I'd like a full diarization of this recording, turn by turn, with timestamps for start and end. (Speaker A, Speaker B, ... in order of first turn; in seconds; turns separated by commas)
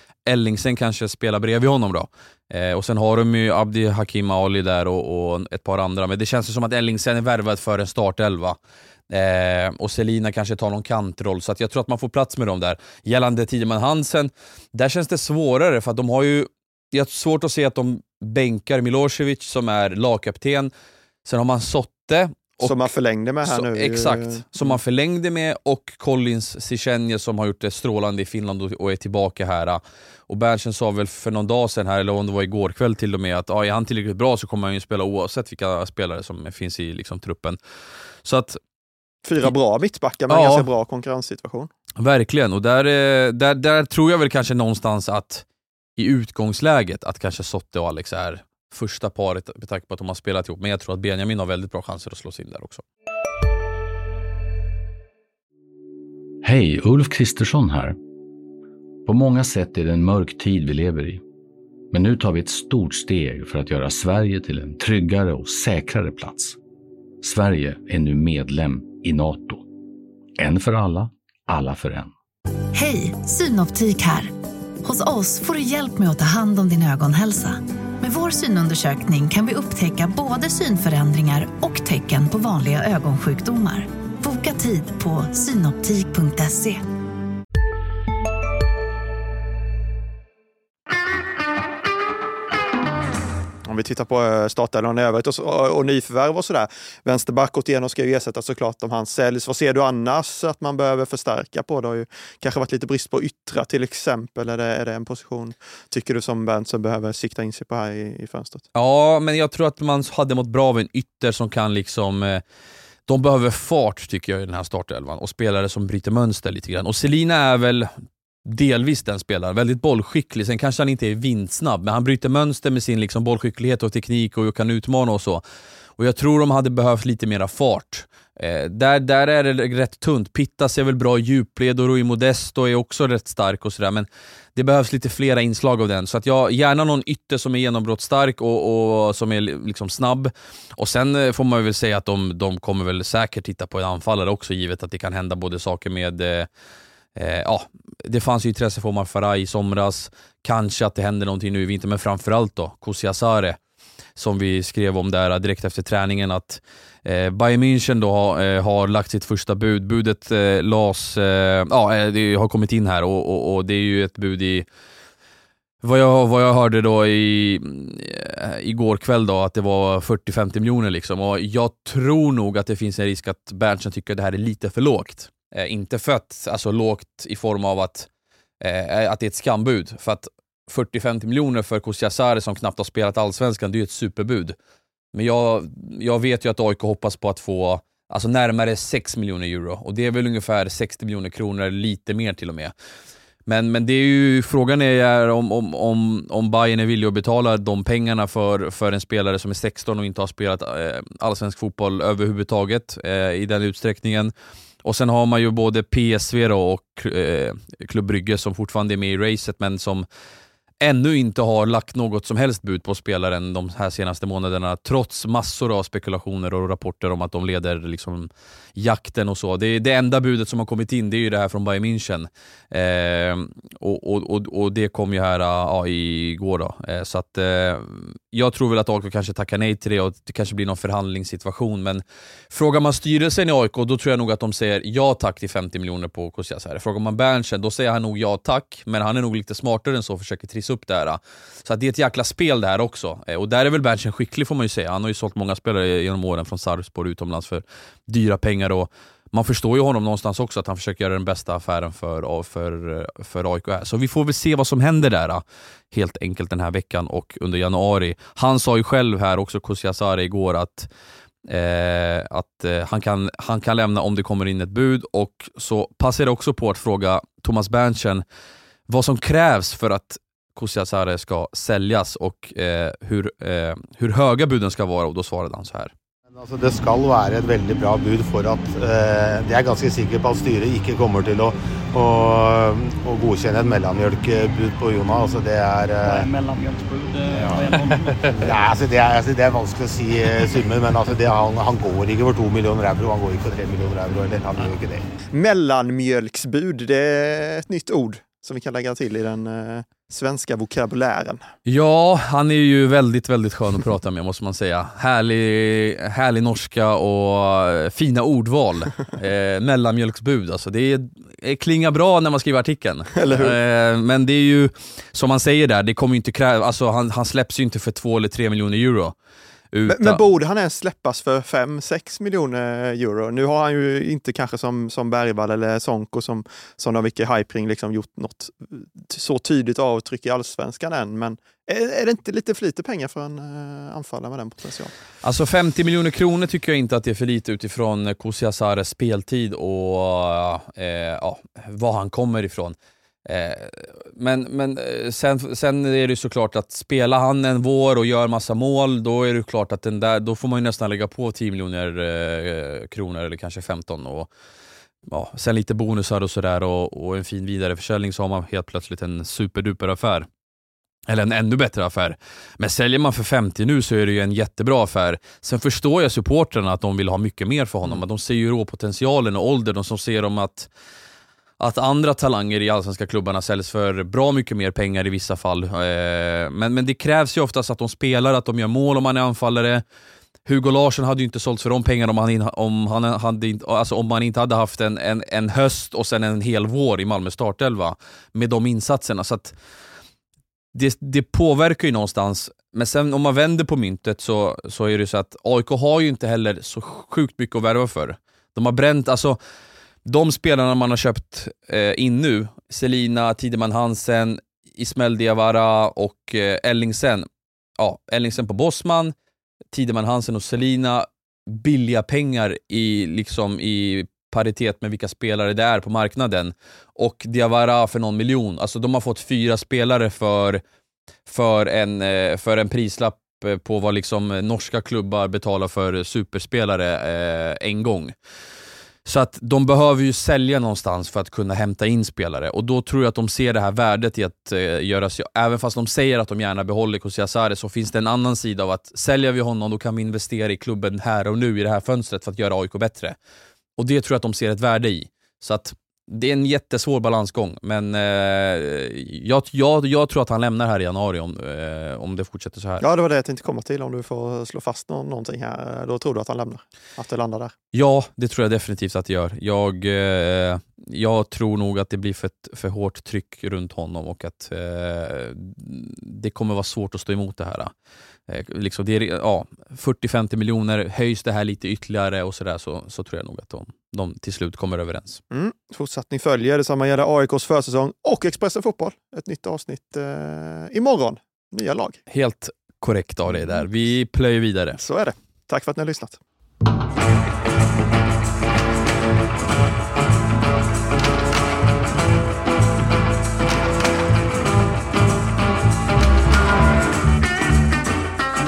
Speaker A: 0.3-8.6, Speaker A: 9.1-20.7, Speaker A: 21.2-22.9, Speaker B: 22.6-24.7, Speaker A: 23.4-37.6, Speaker A: 38.2-38.6, Speaker B: 39.2-41.7, Speaker A: 40.3-40.7, Speaker A: 42.0-45.5, Speaker A: 46.0-52.8, Speaker C: 56.4-58.0, Speaker C: 59.1-61.2, Speaker C: 61.9-66.6, Speaker C: 67.2-69.6, Speaker C: 70.4-72.1, Speaker D: 72.7-74.3, Speaker D: 74.8-86.8, Speaker B: 93.7-108.7, Speaker A: 108.8-112.4, Speaker A: 113.1-117.9, Speaker A: 118.5-125.4, Speaker A: 126.0-146.5, Speaker A: 147.2-153.6, Speaker A: 154.2-164.7, Speaker A: 165.8-178.1, Speaker A: 178.6-184.6, Speaker A: 185.1-192.7, Speaker A: 193.5-204.3, Speaker A: 204.8-210.1, Speaker A: 210.8-260.9, Speaker A: 261.5-268.2, Speaker A: 268.9-275.9, Speaker E: 276.4-286.3, Speaker F: 286.0-288.7, Speaker E: 287.3-295.1, Speaker B: 295.3-301.5, Speaker A: 301.7-319.1, Speaker B: 313.2-313.6, Speaker A: 319.7-320.2, Speaker B: 319.9-334.9, Speaker A: 335.2-354.3, Speaker A: 355.1-360.3, Speaker A: 361.1-370.7, Speaker A: 371.6-379.8, Speaker A: 380.5-389.5, Speaker A: 390.7-399.4, Speaker A: 400.1-407.3, Speaker A: 407.8-409.1, Speaker A: 409.7-420.6, Speaker A: 421.3-428.1, Speaker A: 429.1-443.2, Speaker A: 443.8-452.9, Speaker B: 452.8-457.5, Speaker A: 457.7-467.7, Speaker A: 468.3-475.2, Speaker B: 475.3-482.0, Speaker A: 482.1-484.8, Speaker B: 484.8-486.2